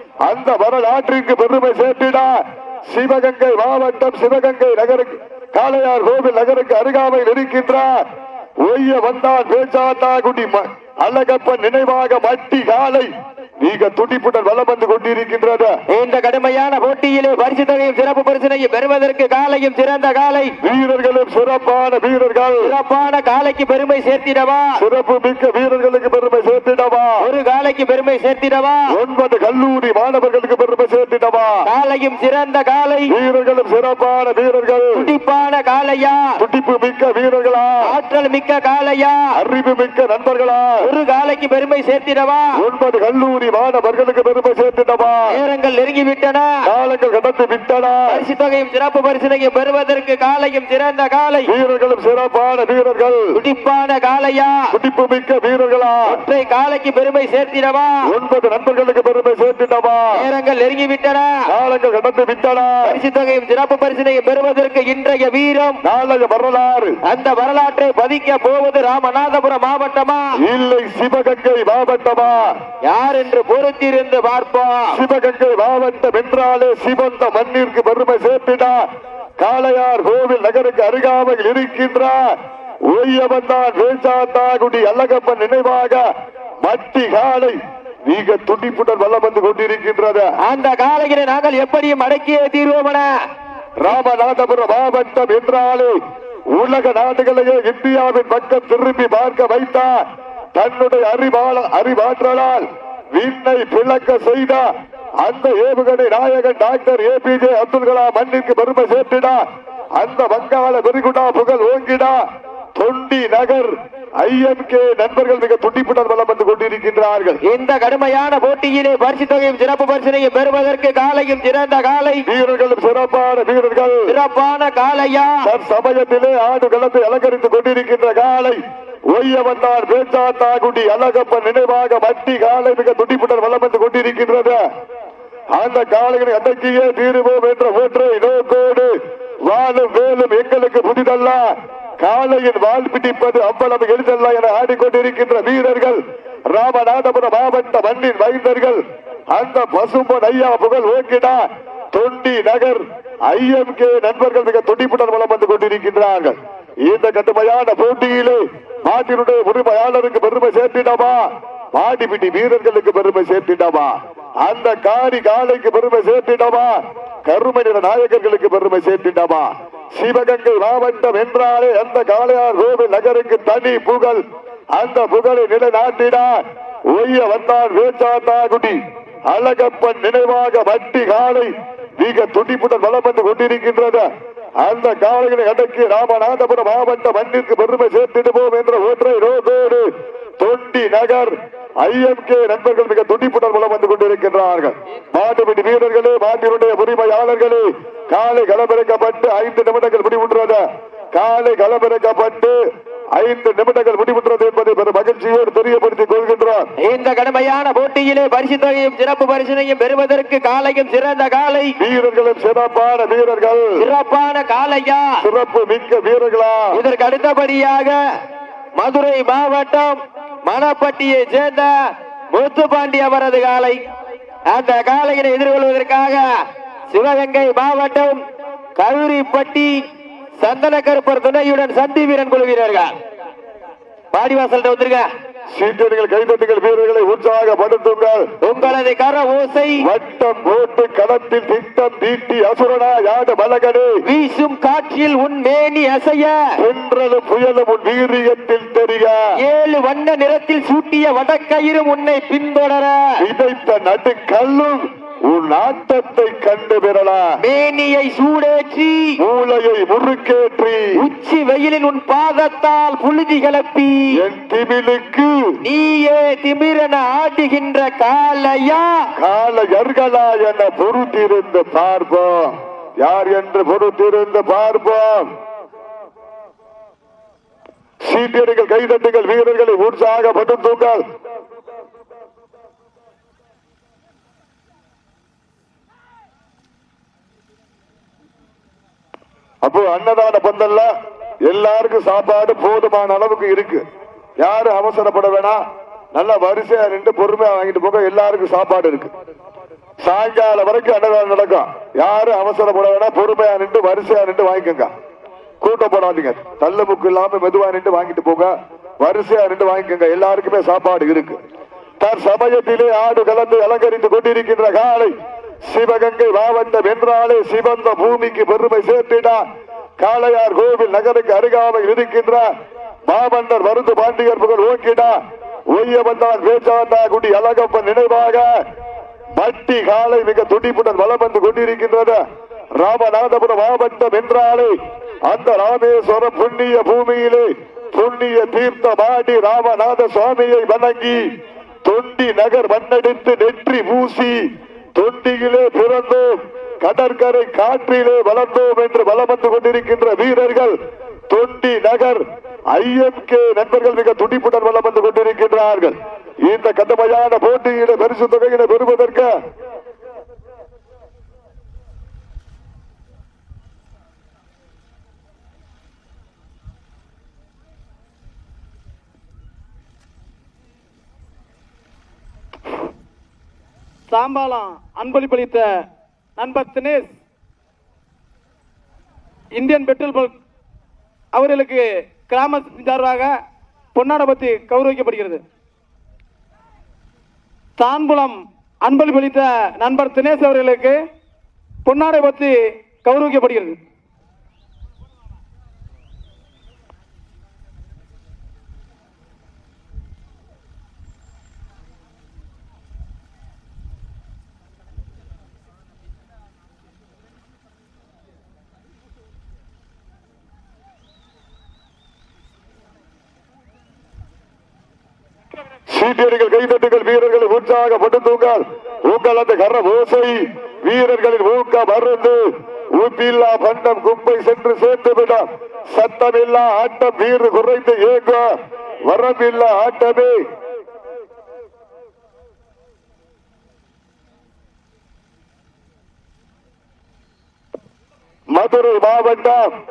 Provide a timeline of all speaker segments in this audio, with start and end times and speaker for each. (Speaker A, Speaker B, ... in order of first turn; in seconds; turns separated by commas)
Speaker A: 0.2-8.0, Speaker A: 8.6-15.8, Speaker B: 15.9-20.5, Speaker A: 20.6-22.7, Speaker B: 22.6-24.8, Speaker A: 24.8-27.3, Speaker B: 27.2-28.8, Speaker A: 28.9-31.7, Speaker B: 31.6-33.1, Speaker A: 33.1-35.1, Speaker B: 35.0-36.4, Speaker A: 36.4-37.9, Speaker B: 37.9-39.2, Speaker A: 39.4-40.9, Speaker B: 40.8-42.5, Speaker A: 42.5-45.4, Speaker B: 45.3-46.5, Speaker A: 46.6-48.2, Speaker B: 48.1-51.5, Speaker A: 51.5-53.4, Speaker B: 53.3-54.5, Speaker A: 54.7-56.2, Speaker B: 56.1-57.9, Speaker A: 58.0-60.3, Speaker B: 60.1-61.3, Speaker A: 61.5-63.0, Speaker B: 62.8-65.8, Speaker A: 65.8-67.0, Speaker B: 67.0-70.3, Speaker A: 70.4-72.5, Speaker B: 72.8-75.0, Speaker A: 74.9-78.8, Speaker A: 79.4-82.3, Speaker A: 82.9-86.0, Speaker A: 86.6-90.3, Speaker B: 90.4-93.1, Speaker A: 93.8-96.0, Speaker A: 96.5-100.0, Speaker A: 100.5-104.7, Speaker A: 105.2-109.5, Speaker A: 110.0-117.4, Speaker B: 117.4-122.2, Speaker A: 122.3-124.1, Speaker B: 124.1-125.4, Speaker A: 125.4-134.6, Speaker A: 135.5-138.9, Speaker A: 139.5-141.4, Speaker A: 142.0-174.2, Speaker A: 174.7-184.1, Speaker A: 184.6-189.9, Speaker A: 190.4-202.6, Speaker A: 203.1-206.7, Speaker B: 206.8-211.8, Speaker A: 211.8-213.8, Speaker B: 213.8-215.1, Speaker A: 215.2-216.8, Speaker B: 216.7-218.0, Speaker B: 218.8-221.7, Speaker B: 222.3-223.8, Speaker B: 224.5-226.2, Speaker B: 226.9-228.2, Speaker B: 228.8-229.8, Speaker B: 230.4-232.9, Speaker B: 234.1-235.1, Speaker A: 235.5-238.2, Speaker B: 238.4-239.8, Speaker A: 239.8-243.9, Speaker B: 244.1-246.4, Speaker A: 246.6-249.2, Speaker B: 249.4-253.0, Speaker A: 253.2-257.3, Speaker B: 257.4-259.2, Speaker A: 259.2-260.9, Speaker B: 261.0-264.1, Speaker A: 264.1-265.4, Speaker B: 265.6-268.9, Speaker A: 269.2-275.3, Speaker A: 278.0-281.0, Speaker A: 289.6-290.9, Speaker A: 291.5-293.8, Speaker A: 294.4-295.6, Speaker A: 296.1-299.1, Speaker A: 300.0-304.9, Speaker A: 305.6-311.4, Speaker A: 312.0-315.1, Speaker A: 315.7-319.4, Speaker A: 320.0-322.5, Speaker A: 323.1-325.2, Speaker A: 325.7-328.5, Speaker A: 329.4-332.2, Speaker A: 332.8-334.8, Speaker A: 335.3-341.2, Speaker A: 341.8-344.4, Speaker A: 345.0-350.8, Speaker A: 351.3-359.3, Speaker C: 374.1-375.8, Speaker C: 376.4-377.1, Speaker C: 379.6-380.3, Speaker C: 381.3-383.3, Speaker C: 383.9-385.4, Speaker C: 387.8-391.0, Speaker C: 391.9-393.8, Speaker A: 415.9-422.4, Speaker A: 422.9-428.5, Speaker A: 429.1-430.4, Speaker A: 438.5-439.7